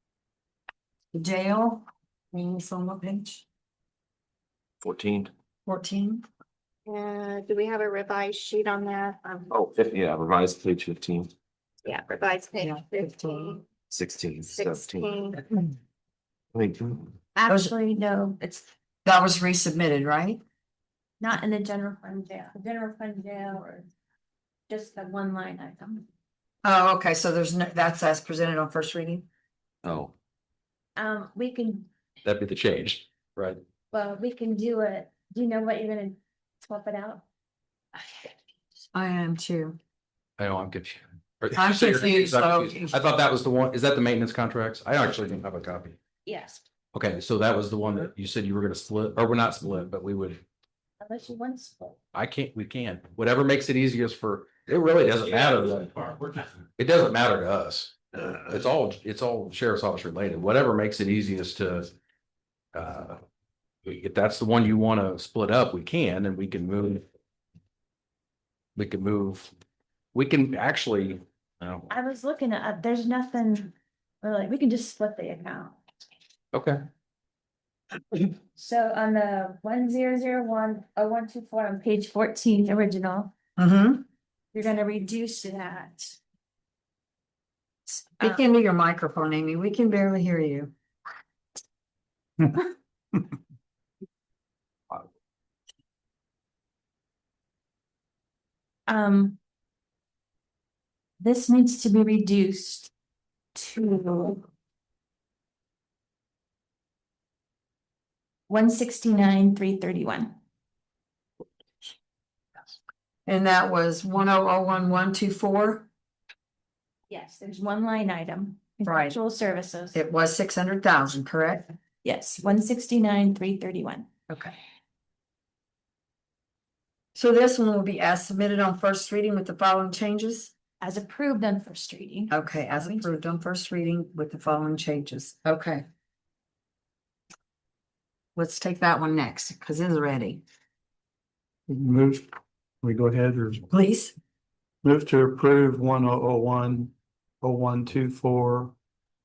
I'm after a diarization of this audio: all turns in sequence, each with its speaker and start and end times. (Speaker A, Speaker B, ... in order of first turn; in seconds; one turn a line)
Speaker A: 1.1-3.5
Speaker B: 4.8-5.3
Speaker A: 5.7-6.2
Speaker C: 6.9-9.5
Speaker B: 9.5-11.3
Speaker C: 11.8-13.6
Speaker A: 12.6-13.6
Speaker B: 13.9-15.1
Speaker C: 14.4-15.4
Speaker B: 16.5-17.1
Speaker D: 17.3-18.7
Speaker A: 17.5-17.7
Speaker A: 19.0-20.4
Speaker D: 21.2-23.9
Speaker D: 24.7-26.1
Speaker A: 26.6-29.2
Speaker B: 29.8-30.1
Speaker D: 30.9-31.9
Speaker E: 32.2-33.6
Speaker D: 33.9-37.2
Speaker A: 38.9-39.8
Speaker E: 40.4-46.0
Speaker A: 41.5-43.0
Speaker D: 46.2-46.6
Speaker E: 46.9-50.4
Speaker D: 51.0-52.0
Speaker E: 52.1-61.9
Speaker E: 62.7-63.2
Speaker E: 63.9-67.0
Speaker E: 68.8-69.5
Speaker E: 70.1-71.9
Speaker D: 71.9-75.8
Speaker E: 76.5-76.8
Speaker D: 78.5-83.3
Speaker A: 83.6-84.0
Speaker D: 84.5-86.2
Speaker A: 87.9-90.7
Speaker D: 98.9-99.4
Speaker D: 101.2-102.9
Speaker D: 103.5-104.4
Speaker D: 108.5-110.3
Speaker A: 113.2-115.9
Speaker D: 117.1-120.0
Speaker A: 118.8-119.1
Speaker A: 119.9-121.7
Speaker D: 122.0-124.1
Speaker A: 124.3-124.6
Speaker A: 127.1-130.5
Speaker D: 130.8-133.1
Speaker A: 132.3-135.8
Speaker A: 138.3-140.4
Speaker F: 141.7-142.3
Speaker F: 142.8-143.7
Speaker A: 143.7-144.1
Speaker F: 144.8-148.7